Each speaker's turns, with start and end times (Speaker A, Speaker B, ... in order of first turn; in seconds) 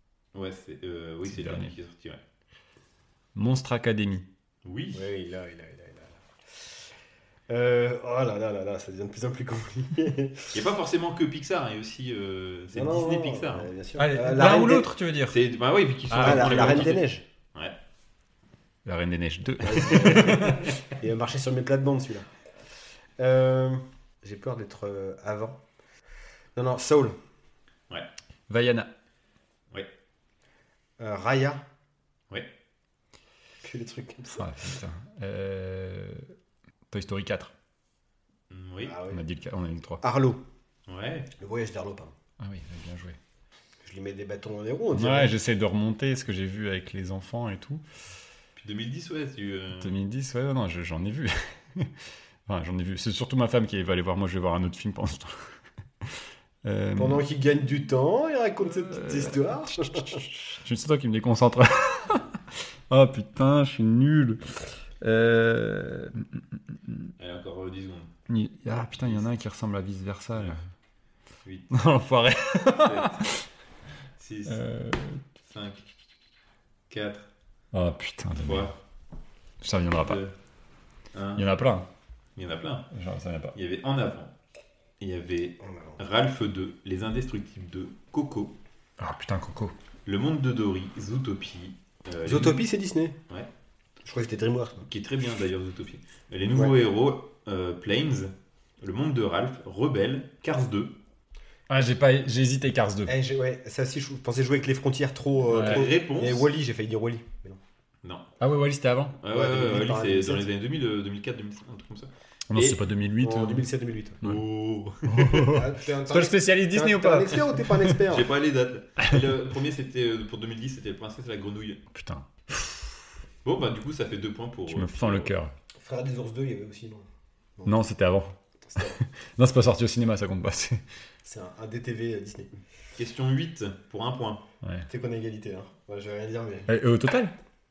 Speaker A: 0.3-2.2, 4.6-5.1, 10.5-13.7, 15.3-17.8, 38.5-39.0, 40.9-41.3, 48.5-49.9, 67.2-68.1, 69.0-69.3, 71.4-71.8, 72.7-73.3, 74.2-74.6, 75.4-75.8, 76.9-77.3, 78.4-78.7, 80.0-80.3, 81.1-81.5, 82.3-82.9, 83.5-84.3, 85.0-88.5, 90.0-92.6, 94.8-100.9, 105.5-106.5, 109.2-112.8, 114.2-115.5, 118.1-121.8, 123.4-125.3, 132.9-134.4
Speaker B: 1.3-1.7, 3.3-4.3, 14.0-15.4, 16.1-17.0, 18.8-20.7, 28.5-28.9, 34.4-36.3, 36.9-37.5, 39.1-40.0, 42.4-43.2, 44.9-47.8, 49.8-51.9, 52.5-55.5, 56.6-57.2, 58.8-64.4, 65.0-67.1, 68.3-70.6, 71.7-73.4, 74.5-75.2, 77.7-78.7, 79.6-80.2, 81.3-81.9, 82.9-83.5, 89.0-89.7, 101.7-103.1, 105.5-105.8, 108.4-109.2, 112.5-113.7, 115.0-118.0, 121.9-123.0, 124.7-125.5, 127.6-130.8, 136.7-137.3
Speaker C: 4.9-6.2, 7.5-10.5, 12.7-14.9, 16.2-17.2, 19.6-22.3, 23.2-25.6, 26.5-27.2, 31.0-31.6, 33.6-34.5, 38.8-39.2, 40.0-40.4, 41.4-42.1, 43.8-45.3, 57.0-60.2, 85.6-86.0, 92.2-93.2, 94.0-94.8, 103.1-107.6, 109.3-110.5, 113.2-114.2, 115.4-118.3, 125.8-127.0, 128.7-129.0, 131.2-132.5, 134.9-136.7